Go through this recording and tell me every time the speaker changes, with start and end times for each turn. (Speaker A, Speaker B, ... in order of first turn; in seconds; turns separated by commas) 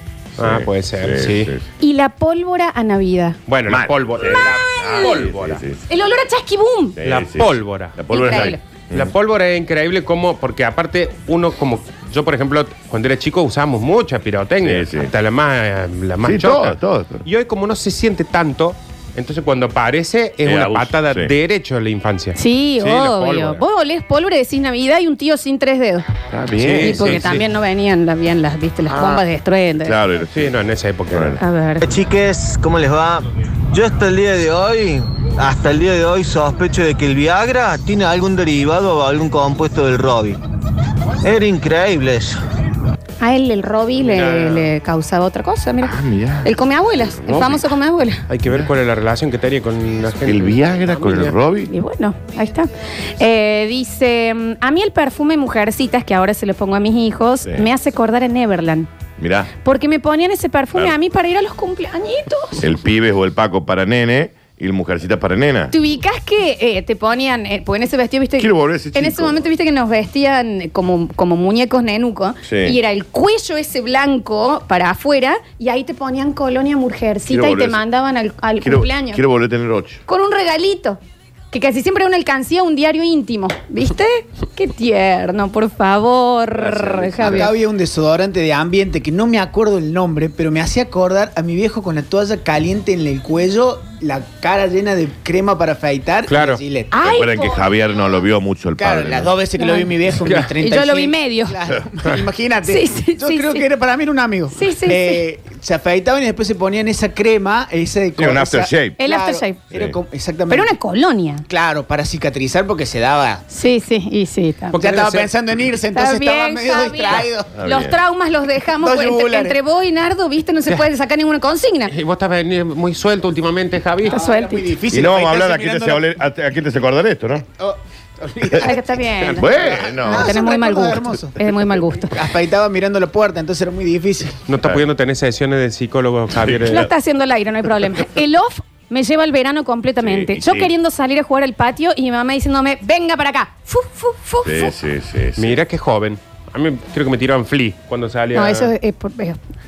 Speaker A: 0.4-1.6, Speaker B: 0.4-1.5, Speaker C: 1.8-3.4, Speaker B: 3.5-5.7, Speaker A: 3.7-5.8, Speaker C: 4.8-5.2, Speaker C: 5.8-7.0, Speaker A: 7.0-9.1, Speaker B: 7.0-23.6, Speaker C: 8.1-8.6, Speaker A: 14.6-15.1, Speaker A: 16.2-17.2, Speaker A: 20.4-21.3, Speaker C: 22.4-26.1, Speaker A: 26.3-27.2, Speaker B: 26.6-27.4, Speaker C: 26.8-29.9, Speaker A: 28.9-29.2, Speaker A: 29.8-30.5, Speaker B: 30.3-31.4, Speaker A: 31.1-31.4, Speaker C: 31.4-31.9, Speaker D: 31.8-40.4, Speaker D: 41.2-42.4, Speaker C: 43.2-48.2, Speaker B: 44.0-44.7, Speaker A: 45.8-46.5, Speaker A: 47.2-47.6, Speaker B: 48.3-51.3, Speaker A: 50.2-51.7, Speaker C: 51.7-58.9, Speaker A: 59.2-59.5, Speaker C: 59.6-62.6, Speaker A: 62.6-65.7, Speaker C: 65.7-79.2, Speaker A: 68.4-69.5, Speaker A: 72.5-72.8, Speaker A: 77.3-77.8, Speaker A: 78.6-80.0, Speaker C: 80.1-81.0, Speaker C: 81.5-87.5, Speaker A: 86.6-87.5, Speaker E: 87.2-97.0, Speaker B: 96.3-96.6, Speaker C: 96.9-97.7, Speaker A: 97.0-99.4, Speaker E: 98.7-110.7, Speaker C: 99.6-99.9, Speaker C: 100.5-101.6, Speaker C: 102.6-103.7, Speaker C: 104.5-105.2, Speaker A: 108.2-109.0, Speaker C: 109.0-109.6, Speaker A: 109.7-110.0, Speaker C: 110.5-111.4, Speaker E: 111.5-113.4, Speaker C: 113.5-114.8, Speaker B: 114.7-115.3, Speaker E: 114.8-117.5, Speaker C: 115.9-121.9, Speaker A: 117.6-118.0, Speaker E: 118.7-119.6, Speaker B: 121.9-124.2, Speaker E: 124.1-126.2, Speaker C: 124.1-124.7, Speaker A: 124.9-127.5, Speaker E: 127.6-134.4, Speaker A: 128.5-130.3, Speaker C: 128.5-132.2, Speaker B: 134.5-136.9, Speaker A: 134.6-134.8, Speaker A: 136.3-136.9, Speaker C: 136.6-144.7, Speaker A: 140.0-140.7, Speaker A: 144.4-145.6, Speaker B: 145.3-148.7, Speaker C: 148.3-149.4